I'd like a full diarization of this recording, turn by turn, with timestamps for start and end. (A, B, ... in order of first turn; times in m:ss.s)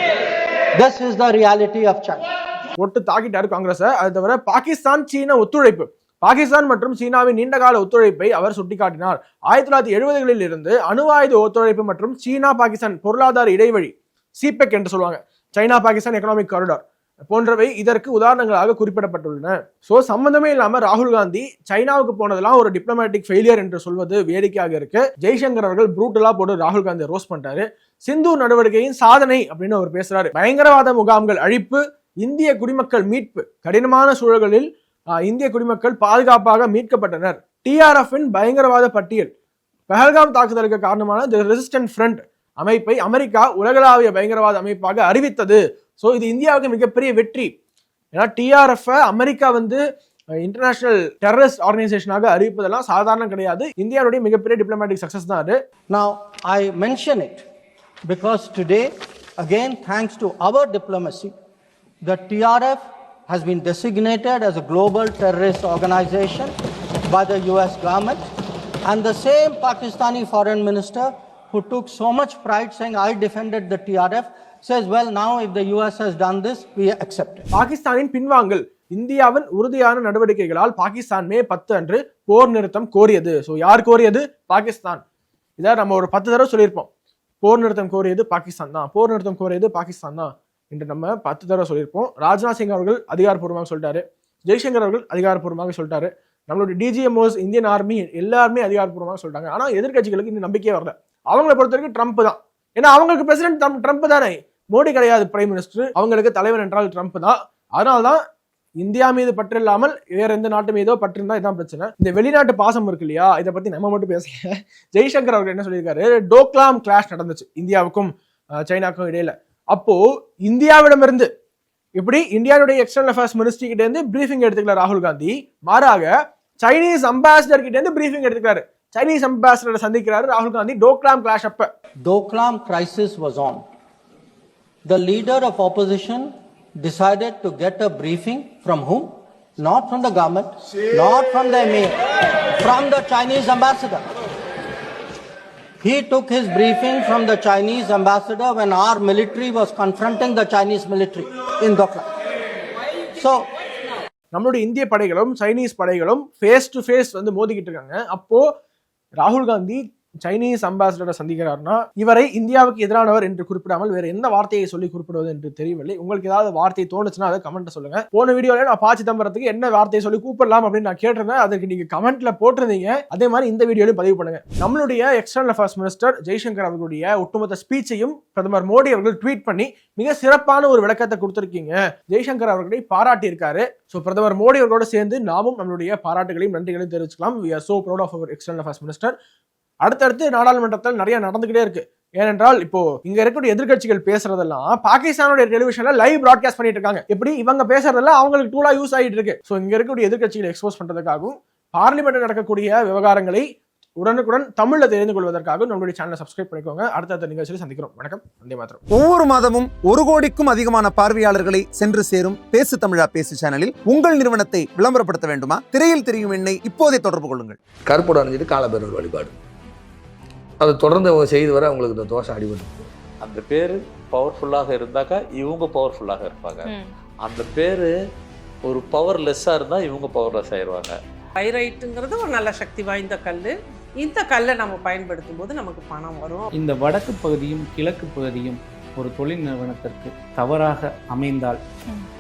0:00.8-0:02.2 A
0:02.8-0:34.7 B
0:35.2-0:39.3 B
0:39.9-0:47.5 B
0:48.2-0:49.8 B
0:50.4-0:55.6 B
0:55.9-0:57.4 A
0:58.1-1:01.3 A
1:02.0-1:06.5 A
1:07.1-1:08.2 A
1:08.8-1:17.5 A
1:17.5-1:25.0 B
1:25.6-1:26.9 B
1:27.4-1:48.2 B
1:48.8-1:58.1 B
1:58.6-2:01.3 B
2:02.0-2:11.7 B
2:12.0-2:13.6 A
2:14.8-2:22.0 A
2:22.6-2:24.0 A
2:25.8-2:32.1 A
2:33.2-2:33.4 A
2:34.3-2:38.5 B
2:39.2-3:09.2 B
3:09.8-3:23.5 B
3:24.0-3:28.8 B
3:28.9-3:37.6 C
3:37.9-3:39.3 D
3:40.6-3:42.7 D
3:43.2-3:47.9 E
3:48.6-3:51.0 E
3:51.4-3:56.5 F
3:56.5-4:01.6 G